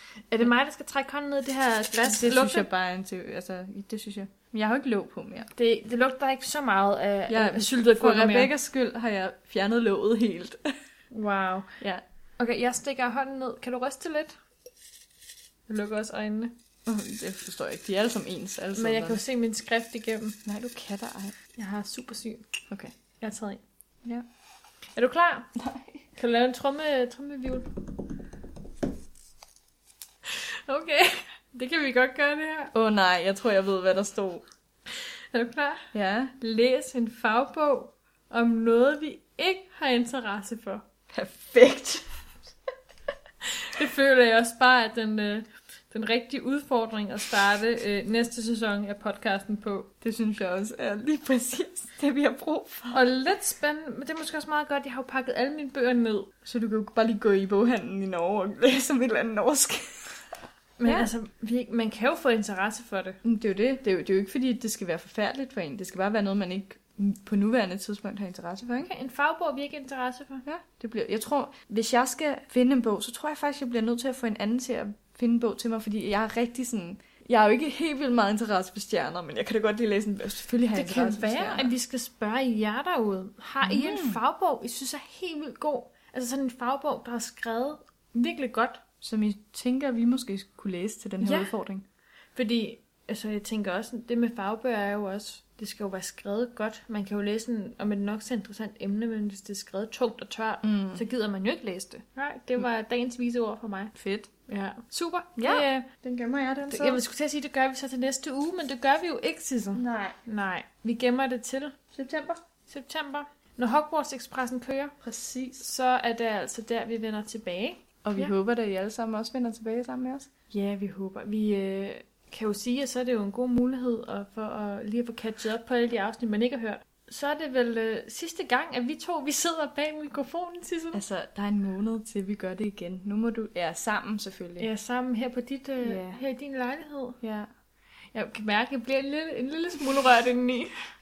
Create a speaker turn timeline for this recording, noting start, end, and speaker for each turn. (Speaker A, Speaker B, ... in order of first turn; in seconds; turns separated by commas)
Speaker A: 0.3-2.7, Speaker B: 2.0-5.5, Speaker A: 5.5-8.5, Speaker B: 7.3-10.6, Speaker A: 11.1-11.7, Speaker A: 12.4-14.3, Speaker A: 15.7-16.5, Speaker B: 16.9-19.2, Speaker A: 18.7-20.4, Speaker B: 20.4-21.3, Speaker A: 21.6-22.4, Speaker B: 22.7-22.9, Speaker A: 23.2-23.6, Speaker A: 24.9-25.5, Speaker B: 25.5-26.0, Speaker A: 26.2-27.8, Speaker A: 30.2-32.7, Speaker B: 32.7-34.4, Speaker A: 35.3-35.9, Speaker B: 35.9-36.3, Speaker A: 36.4-40.9, Speaker B: 41.1-42.0, Speaker A: 43.4-49.9, Speaker B: 50.0-53.0, Speaker A: 52.9-56.3, Speaker B: 56.4-60.2, Speaker A: 60.8-63.2, Speaker B: 60.8-61.1, Speaker B: 63.2-68.9, Speaker A: 68.8-70.4, Speaker B: 70.4-81.7, Speaker A: 80.7-88.8, Speaker B: 83.6-84.2, Speaker B: 89.0-91.8, Speaker A: 91.2-91.5, Speaker A: 92.3-103.9, Speaker B: 100.6-101.0, Speaker B: 103.9-104.3, Speaker A: 104.5-105.9, Speaker B: 105.4-107.0, Speaker A: 106.7-111.8, Speaker B: 109.7-110.2, Speaker B: 111.9-112.4, Speaker A: 112.7-114.9, Speaker B: 115.0-115.6, Speaker A: 115.6-118.3, Speaker B: 118.0-120.3, Speaker A: 120.5-131.0, Speaker B: 130.9-134.7, Speaker A: 134.6-137.2, Speaker B: 135.8-136.2, Speaker B: 137.2-137.5, Speaker A: 138.1-140.7